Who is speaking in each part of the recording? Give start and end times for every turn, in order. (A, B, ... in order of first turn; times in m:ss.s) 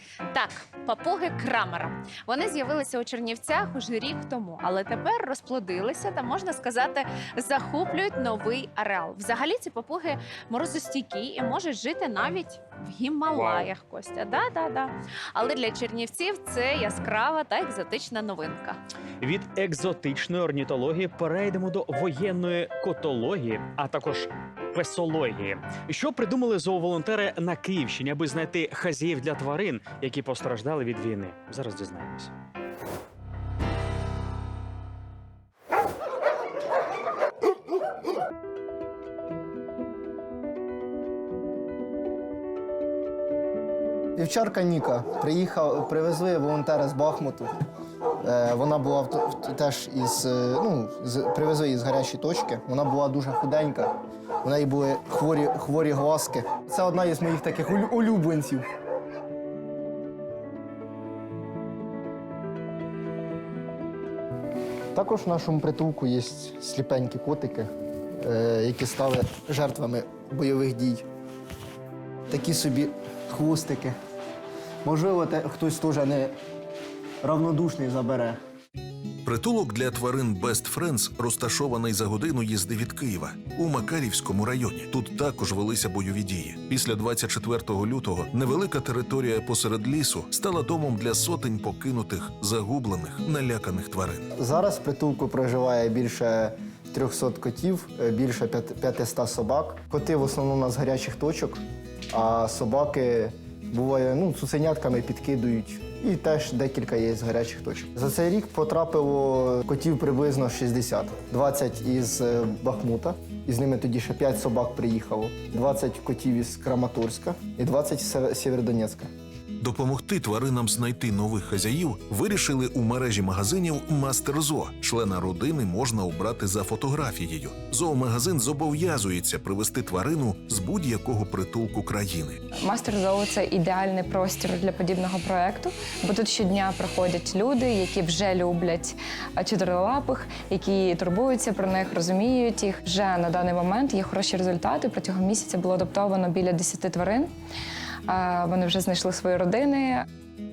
0:00.3-0:18.8 A
0:13.3-0:13.7 B
0:19.2-0:32.3 B
0:44.1-0:47.5 C
0:48.2-0:53.9 C
0:54.4-0:58.6 C
1:04.9-1:11.0 C
1:12.3-1:14.0 C
1:14.8-1:16.3 C
1:17.2-1:18.4 C
1:19.2-1:34.3 D
1:34.3-1:59.1 C
1:59.6-2:12.4 D
2:12.6-2:27.3 E
2:28.1-2:30.0 E